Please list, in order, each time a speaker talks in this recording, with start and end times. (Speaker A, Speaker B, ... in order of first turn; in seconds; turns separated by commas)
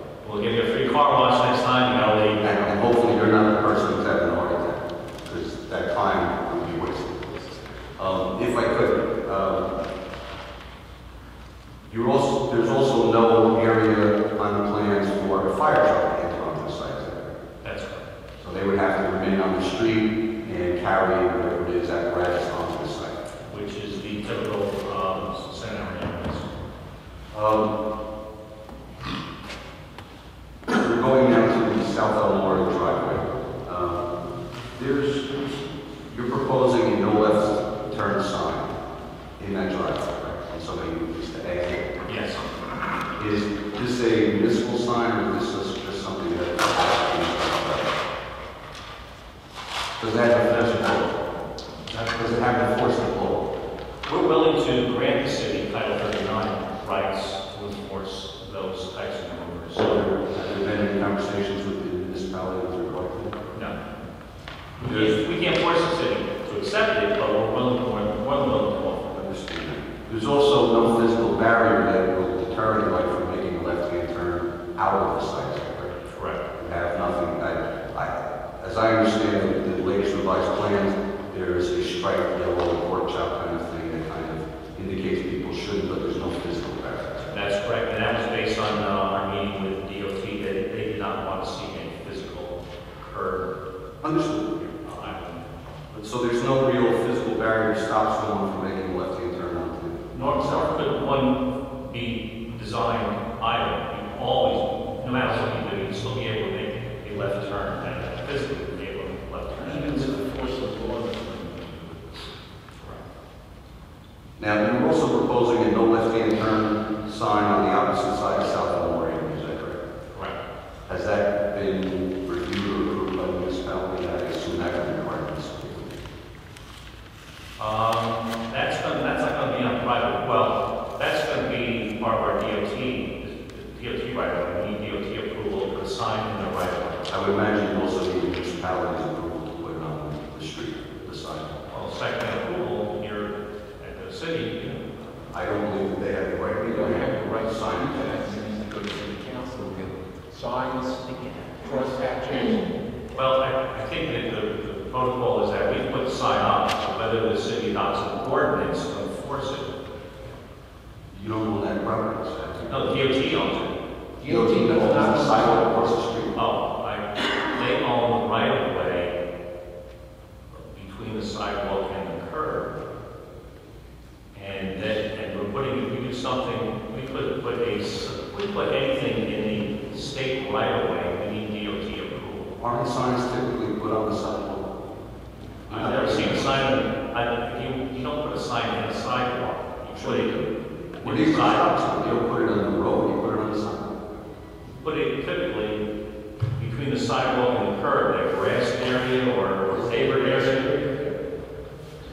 Speaker A: 0.2-2.4, Speaker B: 2.4-9.8, Speaker B: 11.9-17.3, Speaker A: 17.6-18.0, Speaker B: 18.4-23.2, Speaker A: 23.5-26.5, Speaker B: 27.3-27.8, Speaker B: 30.7-34.1, Speaker B: 34.7-35.4, Speaker B: 36.1-38.7, Speaker B: 39.4-41.9, Speaker A: 42.0-42.4, Speaker B: 43.2-48.0, Speaker B: 50.0-51.2, Speaker A: 50.5-51.0, Speaker B: 51.9-53.5, Speaker A: 54.1-60.0, Speaker B: 59.8-63.4, Speaker B: 64.8-65.1, Speaker A: 64.8-69.1, Speaker B: 69.1-75.9, Speaker A: 76.0-76.4, Speaker B: 76.6-87.3, Speaker A: 87.3-93.5, Speaker B: 94.0-94.6, Speaker A: 94.8-95.4, Speaker B: 95.9-100.6, Speaker A: 100.1-110.2, Speaker C: 109.5-112.0, Speaker B: 114.4-119.8, Speaker B: 120.9-126.0, Speaker A: 127.6-137.1, Speaker B: 137.1-141.5, Speaker A: 141.7-144.8, Speaker B: 145.3-148.2, Speaker C: 146.7-152.7, Speaker A: 153.1-159.8, Speaker B: 161.1-163.6, Speaker A: 162.7-163.7, Speaker C: 164.2-165.9, Speaker B: 164.2-166.4, Speaker A: 166.3-169.1, Speaker A: 170.5-172.7, Speaker A: 174.3-182.5, Speaker B: 182.6-184.7, Speaker B: 185.7-186.6, Speaker A: 185.7-190.4, Speaker B: 189.9-193.9, Speaker A: 191.0-191.8, Speaker A: 194.8-195.8, Speaker A: 196.6-200.7, Speaker C: 199.9-201.2